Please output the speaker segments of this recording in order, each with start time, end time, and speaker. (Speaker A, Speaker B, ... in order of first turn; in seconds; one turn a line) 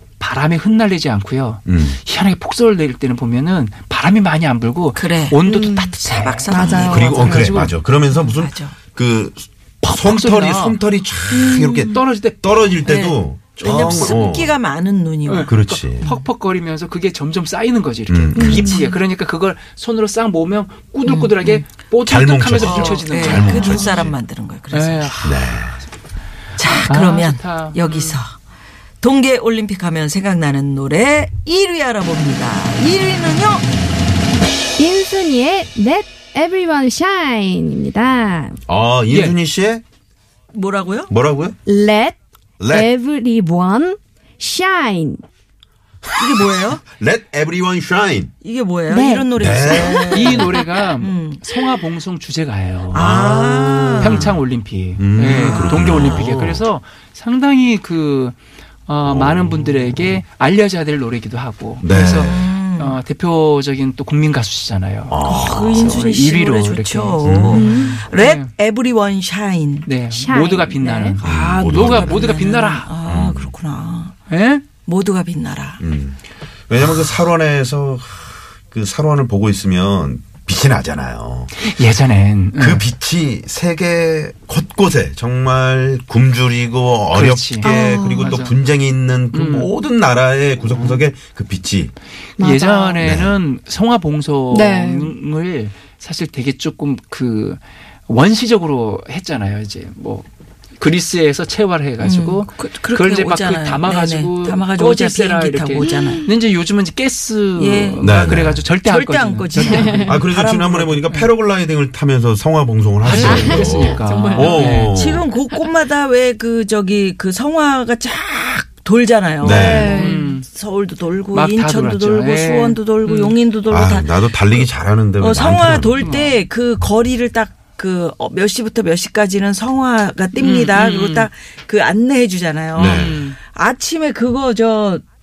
Speaker A: 0.2-7.8
Speaker B: 1.7-2.0
Speaker C: 5.0-8.8
Speaker D: 5.5-6.0
Speaker D: 6.5-7.5
Speaker B: 6.8-14.6
Speaker A: 9.8-10.8
Speaker C: 11.3-12.0
Speaker A: 11.6-12.8
Speaker C: 12.8-15.5
Speaker A: 13.7-14.0
Speaker A: 15.3-24.1
Speaker B: 15.5-16.1
Speaker B: 18.1-18.8
Speaker D: 18.4-18.7
Speaker C: 18.4-19.0
Speaker C: 21.1-21.6
Speaker B: 22.1-24.1
Speaker C: 22.6-25.3
Speaker A: 24.7-25.9
Speaker B: 25.2-25.8
Speaker C: 26.6-28.4
Speaker A: 26.8-28.2
Speaker C: 29.0-33.7
Speaker D: 34.8-38.6
Speaker B: 38.7-39.8
Speaker A: 39.1-39.4
Speaker C: 40.5-41.1
Speaker B: 41.1-41.6
Speaker D: 41.7-42.2
Speaker B: 42.6-42.9
Speaker D: 42.7-45.2
Speaker B: 46.1-48.3
Speaker C: 46.2-46.8
Speaker C: 48.4-51.8
Speaker D: 48.9-49.8
Speaker B: 49.4-50.3
Speaker A: 50.0-53.4
Speaker C: 52.9-54.2
Speaker B: 52.9-54.4
Speaker A: 54.0-68.5
Speaker B: 55.0-56.6
Speaker C: 55.2-56.2
Speaker B: 59.0-60.2
Speaker B: 61.8-62.4
Speaker C: 62.0-63.0
Speaker B: 65.1-66.0
Speaker C: 65.2-74.2
Speaker B: 67.2-67.7
Speaker D: 67.6-68.0
Speaker A: 69.8-72.9
Speaker D: 70.1-70.9
Speaker B: 71.2-72.4
Speaker B: 73.1-73.5
Speaker A: 74.3-74.7
Speaker C: 74.8-75.8
Speaker B: 75.8-81.5
Speaker A: 81.5-82.9
Speaker B: 82.6-91.9
Speaker A: 87.1-88.6
Speaker D: 87.6-88.4
Speaker A: 89.3-89.7
Speaker A: 90.7-91.0
Speaker D: 92.4-93.1
Speaker A: 92.4-100.3
Speaker B: 93.0-93.4
Speaker D: 94.5-95.1
Speaker A: 100.8-110.3
Speaker C: 102.0-106.2
Speaker C: 107.6-111.0
Speaker B: 108.0-108.6
Speaker B: 110.1-115.2
Speaker A: 113.0-115.0
Speaker D: 113.2-114.7
Speaker C: 114.6-135.0
Speaker B: 119.4-120.0
Speaker D: 119.4-120.4
Speaker A: 119.8-120.5
Speaker A: 121.3-123.4
Speaker B: 123.7-126.1
Speaker A: 126.0-126.4
Speaker A: 130.3-131.3
Speaker B: 132.7-133.2
Speaker A: 132.7-133.4